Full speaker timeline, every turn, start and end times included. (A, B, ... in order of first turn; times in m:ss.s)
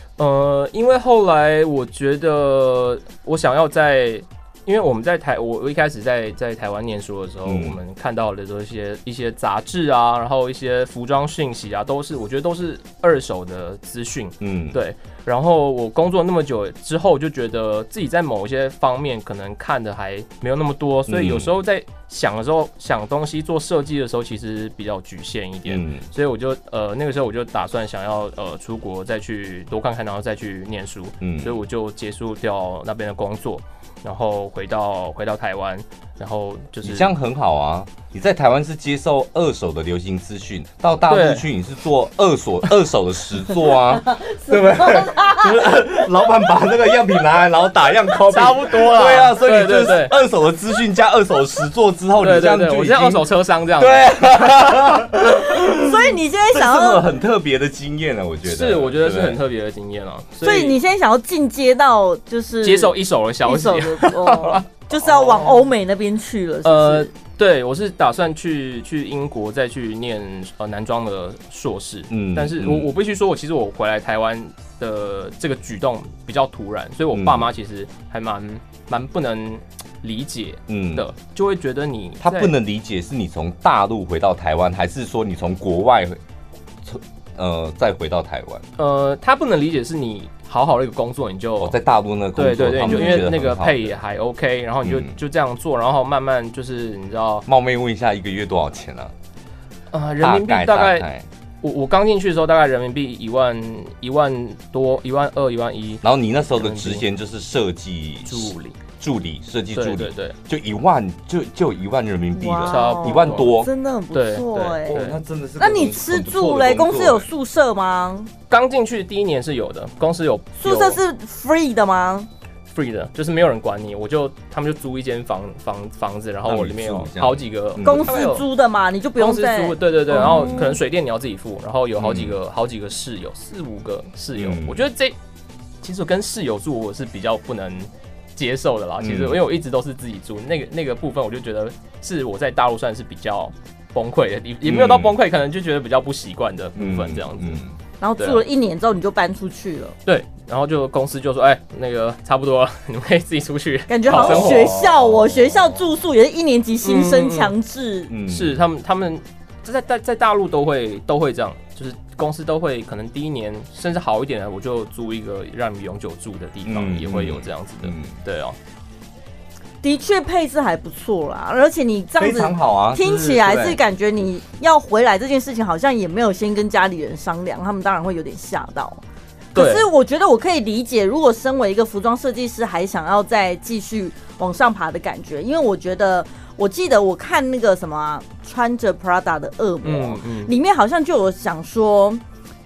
0:00.2-0:37.1 A
0:07.4-0:07.8 B
0:14.4-0:14.8 B
0:21.1-0:21.5 B
0:25.7-0:26.1 B
0:31.2-0:31.6 B
0:36.8-0:53.3 B
0:41.1-0:41.5 A
0:44.2-0:45.9 C
0:48.3-0:50.2 A
0:52.2-0:54.4 A
0:53.8-0:59.4 B
0:55.3-0:57.1 C
0:58.5-1:00.8 A
1:00.4-1:07.1 C
1:02.6-1:05.7 A
1:06.6-1:22.6 A
1:12.1-1:12.9 B
1:17.1-1:17.5 B
1:20.7-1:21.1 B
1:22.2-1:26.2 B
1:26.8-1:28.6 B
1:28.8-1:31.8 A
1:31.6-1:33.9 B
1:32.4-1:37.5 A
1:32.9-1:33.2 C
1:34.8-1:35.2 B
1:37.5-1:39.1 B
1:39.9-1:41.1 A
1:40.2-1:41.3 B
1:41.6-1:47.0 A
1:46.0-1:53.7 B
1:48.3-1:48.8 A
1:49.7-1:50.4 A
1:52.4-1:55.0 C
1:52.7-1:53.5 A
1:54.1-1:55.2 A
1:54.9-1:57.3 B
1:55.6-1:58.3 C
1:58.5-2:01.0 A
2:00.6-2:02.3 C
2:02.7-2:08.4 A
2:06.4-2:08.2 B
2:07.8-2:10.8 C
2:09.2-2:15.2 A
2:10.2-2:10.7 B
2:12.0-2:12.4 B
2:14.4-2:14.8 B
2:15.8-2:27.6 A
2:19.0-2:19.4 B
2:24.6-2:25.2 B
2:26.8-2:27.8 B
2:28.0-2:30.0 C
2:28.2-2:28.4 A
2:30.1-2:34.8 A
2:33.9-2:38.1 C
2:34.1-2:35.8 B
2:36.8-2:37.5 A
2:38.1-2:38.6 B
2:38.2-2:48.6 A
2:46.7-2:48.2 B
2:49.8-2:59.0 C
2:52.2-2:53.8 B
2:59.5-3:12.2 C
2:59.6-2:59.9 A
3:09.8-3:10.5 A